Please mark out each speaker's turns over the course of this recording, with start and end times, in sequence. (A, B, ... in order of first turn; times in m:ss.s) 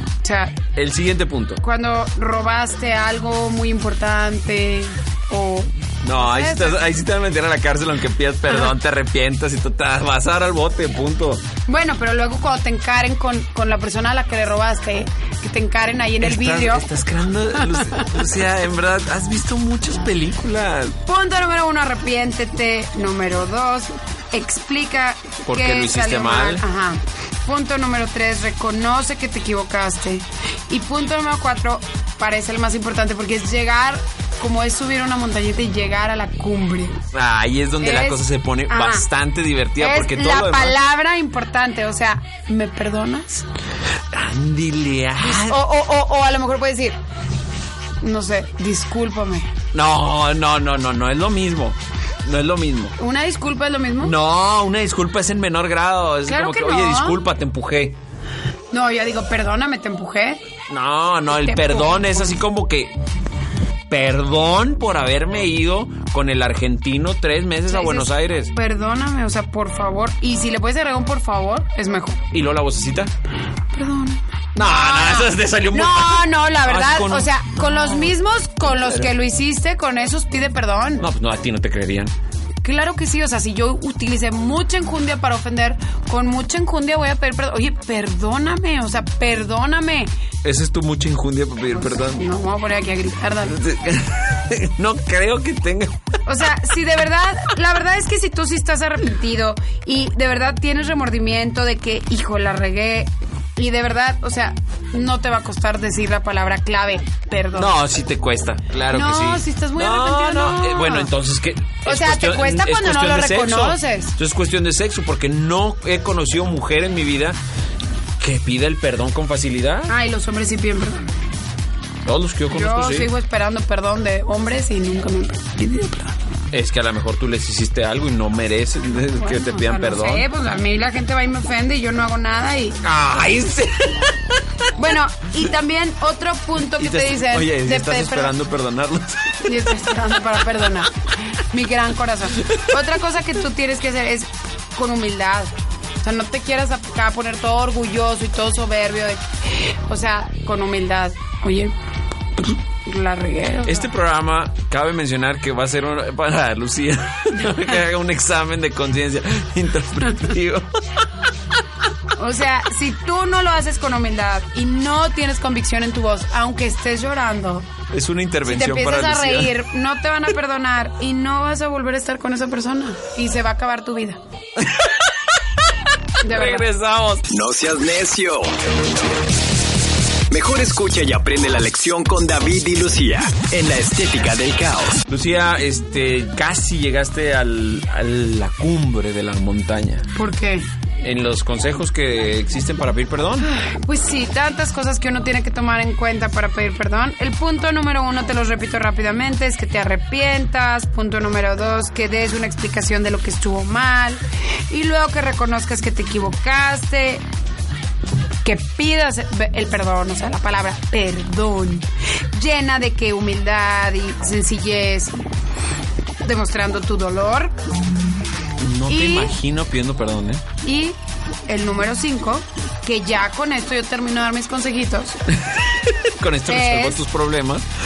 0:00.2-0:00.6 A
0:00.8-0:01.6 B
0:01.6-0:06.8 A
0:06.0-0:11.4 B
0:11.7-0:16.8 A
0:16.2-0:21.0 B
0:17.6-0:18.1 A
0:21.0-0:37.0 A
0:25.4-0:26.6 B
0:37.1-0:40.8 B
0:37.8-0:39.1 A
0:39.8-0:43.4 A
0:44.1-0:45.6 B
0:45.2-0:47.0 A
0:48.0-0:49.5 A
0:49.7-0:53.0 B
0:53.0-0:54.1 A
0:54.0-0:58.0 B
0:56.3-0:57.2 A
0:58.7-1:00.4 A
1:00.7-1:02.9 B
1:01.3-1:02.4 A
1:03.9-1:08.5 B
1:07.7-1:12.3 A
1:12.3-1:13.1 B
1:13.7-1:21.1 A
1:14.6-1:19.1 B
1:21.0-1:22.1 B
1:22.6-1:30.1 A
1:30.4-1:32.2 B
1:31.7-1:33.6 A
1:33.5-1:36.0 B
1:36.3-1:47.7 A
1:47.6-1:57.4 B
1:48.9-1:51.1 A
1:51.8-1:54.1 A
1:58.2-1:59.9 B
1:59.9-2:01.1 A
2:02.0-2:03.1 B
2:02.5-2:06.1 A
2:06.5-2:10.3 B
2:09.2-2:12.8 A
2:12.8-2:14.4 B
2:14.8-2:18.3 A
2:16.8-2:20.0 B
2:19.4-2:25.5 A
2:26.0-2:31.7 A
2:32.8-2:33.9 A
2:33.6-2:40.7 B
2:42.2-2:47.7 A
2:47.9-2:49.6 B
2:48.4-2:54.2 A
2:54.6-2:55.4 B
2:56.2-2:56.7 A
2:56.2-2:57.3 B
2:57.3-2:58.5 C
3:00.3-3:05.0 C
3:05.1-3:10.1 B
3:10.1-3:10.7 A
3:11.0-3:13.5 B
3:13.4-3:27.2 A
3:28.4-3:35.2 A
3:36.2-3:37.5 A
3:38.6-3:40.4 B
3:38.9-3:39.3 A
3:40.6-3:41.0 A
3:41.5-3:45.2 A
3:45.3-3:47.7 B
3:46.5-3:47.0 A